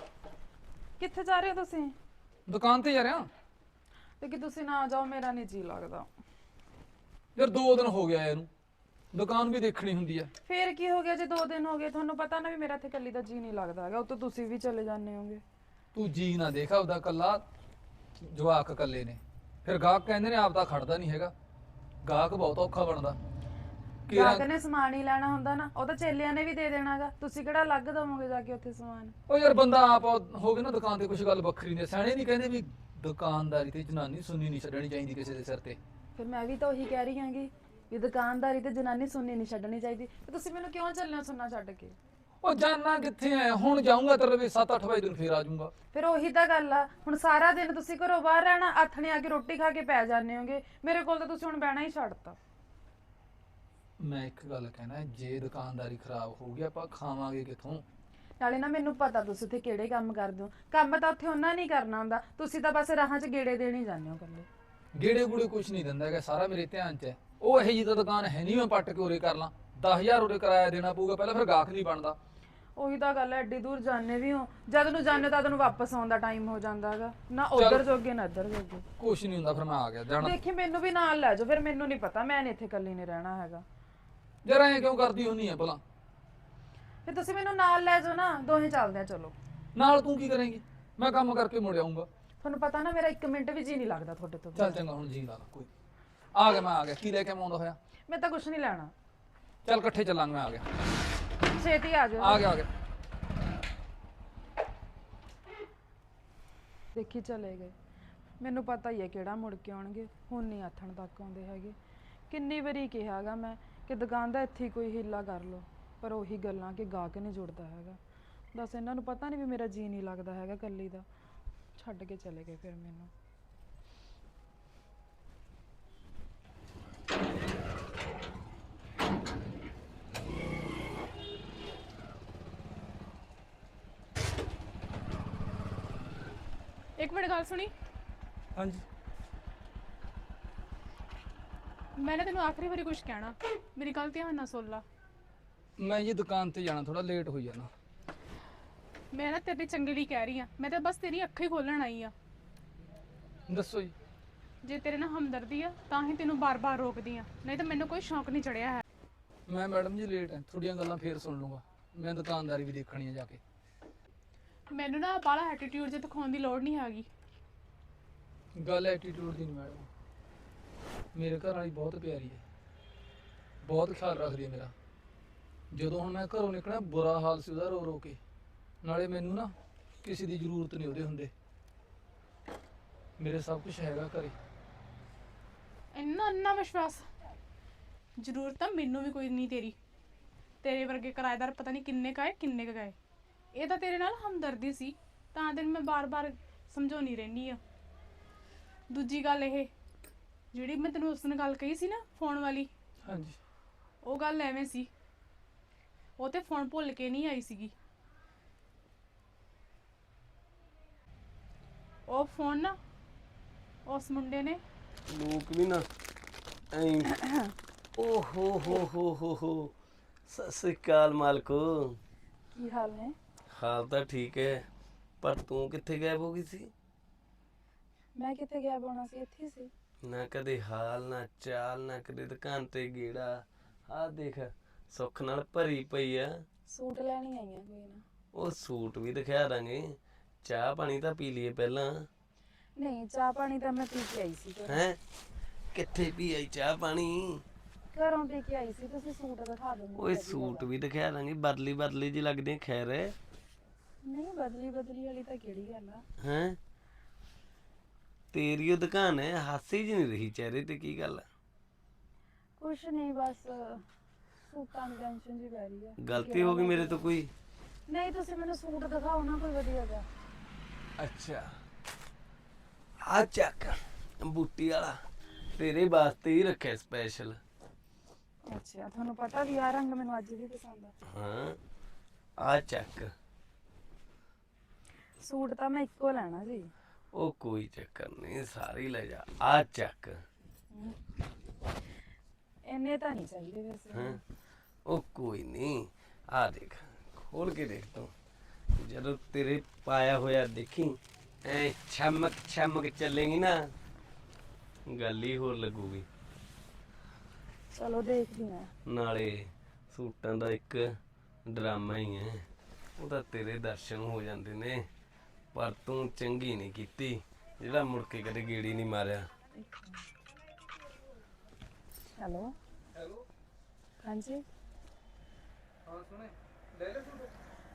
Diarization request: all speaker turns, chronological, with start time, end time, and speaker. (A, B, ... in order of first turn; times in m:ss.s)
0:01.0-0:02.0 A
0:02.5-0:03.3 B
0:04.2-0:06.1 A
0:07.4-0:08.5 B
0:09.1-0:10.3 B
0:10.5-0:15.4 A
0:15.9-0:17.4 B
0:18.2-0:21.3 B
0:22.0-0:23.2 B
0:24.1-0:24.5 B
0:24.1-0:29.2 A
0:29.3-0:35.8 B
0:36.1-0:42.0 A
0:42.4-0:45.7 B
0:45.9-0:52.4 A
0:54.0-0:57.8 B
0:58.4-1:04.5 A
1:04.9-1:12.2 B
1:12.8-1:18.8 A
1:17.6-1:17.9 B
1:19.0-1:20.4 B
1:20.2-1:23.6 A
1:24.4-1:25.8 B
1:27.0-1:29.4 A
1:29.8-1:32.1 B
1:32.4-1:34.8 A
1:34.6-1:35.7 B
1:36.3-1:37.8 B
1:38.1-1:38.9 A
1:39.6-1:40.7 B
1:41.5-1:42.4 A
1:42.2-1:42.7 B
1:47.0-1:47.7 A
1:48.4-1:51.8 A
1:52.3-1:58.0 A
1:58.5-2:01.0 A
2:01.8-2:03.1 A
2:17.0-2:17.7 C
2:18.6-2:18.8 B
2:22.0-2:24.8 C
2:25.8-2:27.7 B
2:29.1-2:32.1 C
2:33.5-2:33.9 B
2:34.6-2:38.8 C
2:39.5-2:43.4 B
2:44.7-2:47.1 C
2:48.6-2:49.9 B
2:51.2-2:52.4 B
2:53.6-2:54.7 B
2:55.7-2:58.2 B
2:58.8-3:01.3 B
3:03.2-3:04.4 B
3:05.9-3:07.1 C
3:08.2-3:09.8 C
3:10.6-3:13.0 C
3:13.5-3:17.6 C
3:18.9-3:19.7 C
3:20.5-3:22.7 C
3:23.0-3:23.4 B
3:24.0-3:24.9 C
3:26.2-3:27.7 C
3:32.1-3:32.8 C
3:33.8-3:34.6 C
3:35.1-3:35.8 D
3:36.7-3:37.1 D
3:37.1-3:37.5 A
3:38.0-3:39.7 D
3:40.3-3:42.0 D
3:42.5-3:43.2 A
3:43.5-3:44.7 D
3:45.2-3:46.7 D
3:48.2-3:49.7 A
3:50.1-3:53.3 D
3:53.9-3:56.4 D
3:56.7-3:58.0 A
3:58.3-4:02.1 D
4:02.8-4:04.9 A
4:04.7-4:05.0 D
4:05.7-4:07.4 D
4:07.9-4:10.7 A
4:10.0-4:13.2 D
4:14.0-4:16.0 A
4:16.2-4:16.6 D
4:18.3-4:21.2 D
4:22.6-4:23.8 A
4:24.4-4:27.1 A
4:26.0-4:27.3 D
4:27.9-4:30.0 A
4:31.0-4:31.4 D
4:33.1-4:35.0 D
4:35.6-4:37.4 D
4:38.5-4:40.9 A
4:41.1-4:41.6 D
4:42.4-4:43.1 D
4:45.2-4:46.7 A
4:47.1-4:50.2 D
4:50.7-4:51.0 A
4:52.6-4:54.2 A
4:53.9-4:54.2 D
4:54.9-4:58.1 D
4:58.8-5:03.6 D
5:04.9-5:06.0 D
5:07.7-5:08.7 A
5:08.9-5:10.8 D
5:11.5-5:12.4 D
5:13.0-5:14.8 D
5:15.5-5:19.3 D
5:19.6-5:20.0 A
5:22.2-5:22.5 A
5:22.9-5:23.2 B
5:24.0-5:24.4 A
5:25.8-5:27.3 B